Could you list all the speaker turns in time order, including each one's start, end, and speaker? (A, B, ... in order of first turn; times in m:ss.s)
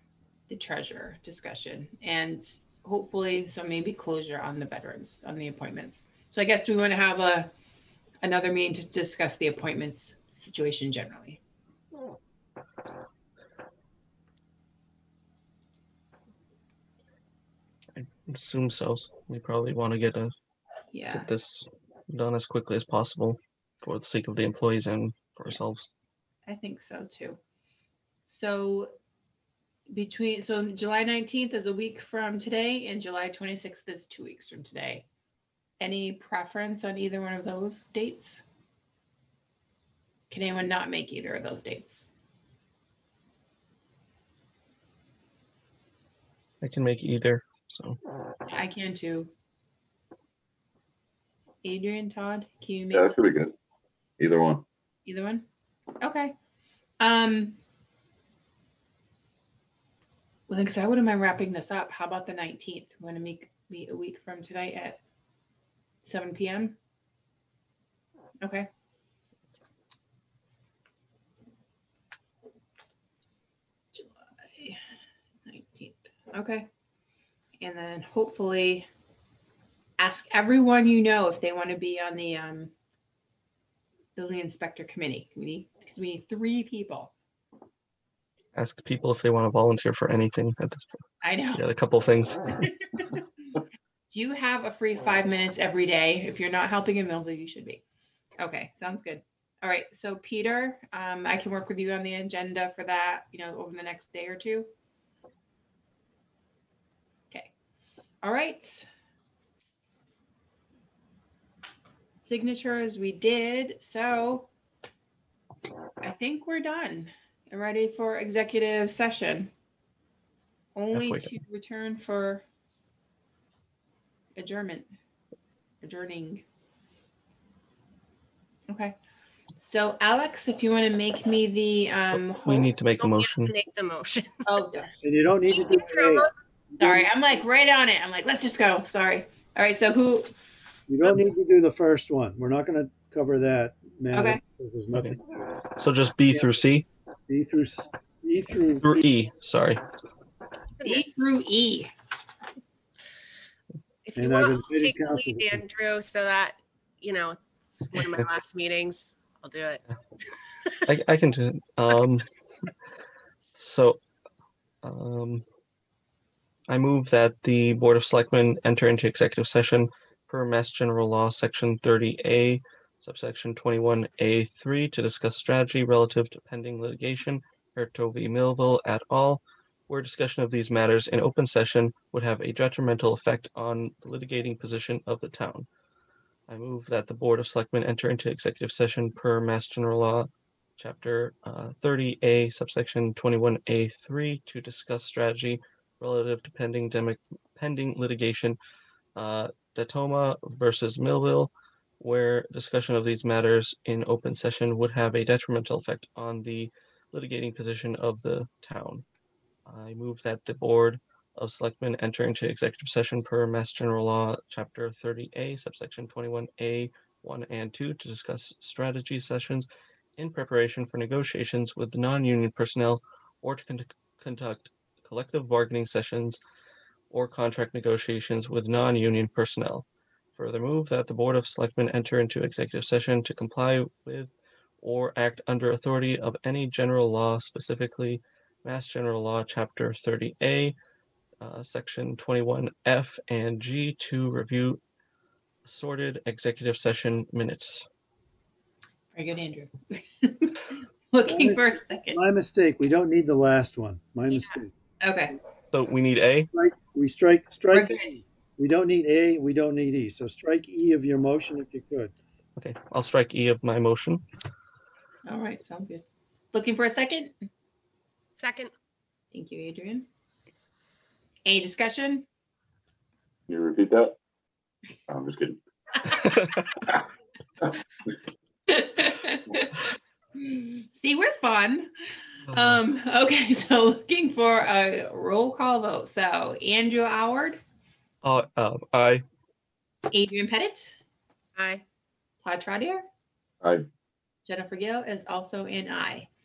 0:00.5-0:07.5 A
0:08.2-0:11.4 A
0:18.0-0:20.3 B
0:20.9-0:21.3 A
0:21.1-0:25.9 B
0:26.5-0:27.4 A
0:28.3-0:28.9 A
0:29.9-0:35.0 A
0:35.8-0:38.4 A
0:40.3-0:42.1 A
0:46.6-0:48.0 B
0:48.5-0:49.3 A
0:51.6-0:53.2 A
0:52.9-0:53.5 C
0:54.2-0:54.6 C
0:55.0-0:55.4 A
0:56.0-0:56.3 A
0:57.0-0:57.6 A
1:00.5-1:05.0 A
1:06.0-1:06.7 A
1:08.4-1:08.7 A
1:13.9-1:14.8 A
1:15.5-1:16.7 A
1:17.6-1:18.9 A
1:20.0-1:22.7 A
1:24.2-1:27.1 A
1:28.5-1:31.0 B
1:31.2-1:31.6 A
1:31.5-1:33.2 B
1:34.1-1:37.8 A
1:38.4-1:44.7 A
1:48.2-1:48.9 A
1:52.2-1:54.5 A
1:56.0-1:59.5 A
2:00.7-2:02.4 A
2:00.9-2:01.3 B
2:04.4-2:04.9 A
2:05.8-2:06.4 A
2:08.7-2:08.9 A
2:09.6-2:12.7 A
2:12.1-2:13.5 B
2:13.0-2:14.6 D
2:14.5-2:14.9 A
2:15.0-2:17.1 E
2:15.7-2:16.2 D
2:16.8-2:20.3 A
2:20.9-2:25.6 E
2:24.1-2:24.4 A
2:25.8-2:26.8 B
2:26.3-2:26.6 E
2:27.3-2:29.0 E
2:28.8-2:29.8 B
2:30.8-2:31.2 D
2:30.8-2:31.9 A
2:34.0-2:39.8 D
2:34.2-2:35.6 E
2:40.9-2:42.7 B
2:43.5-2:44.0 B
2:44.8-2:45.4 B
2:46.7-3:05.7 B
3:06.5-3:18.6 B
3:19.2-3:29.0 B
3:29.6-3:46.4 B
3:47.1-4:00.7 B
4:01.4-4:04.8 B
4:05.6-4:07.8 B
4:09.1-4:12.2 A
4:11.2-4:14.7 E
4:15.0-4:15.4 A
4:15.7-4:16.5 B
4:16.5-4:18.0 E
4:17.7-4:18.2 A
4:18.6-4:22.1 E
4:22.6-4:24.2 B
4:25.2-4:27.3 A
4:28.4-4:28.7 D
4:29.3-4:30.1 A
4:31.4-4:32.2 A
4:33.5-4:34.2 C
4:35.1-4:35.6 C
4:36.2-4:36.6 B
4:38.7-4:39.8 A
4:40.4-4:41.9 A
4:42.5-4:47.6 A
4:48.2-4:49.2 B
4:50.1-4:51.0 A
4:51.6-4:51.8 D
4:52.4-4:53.0 A
4:53.6-4:53.9 C
4:54.5-4:56.3 A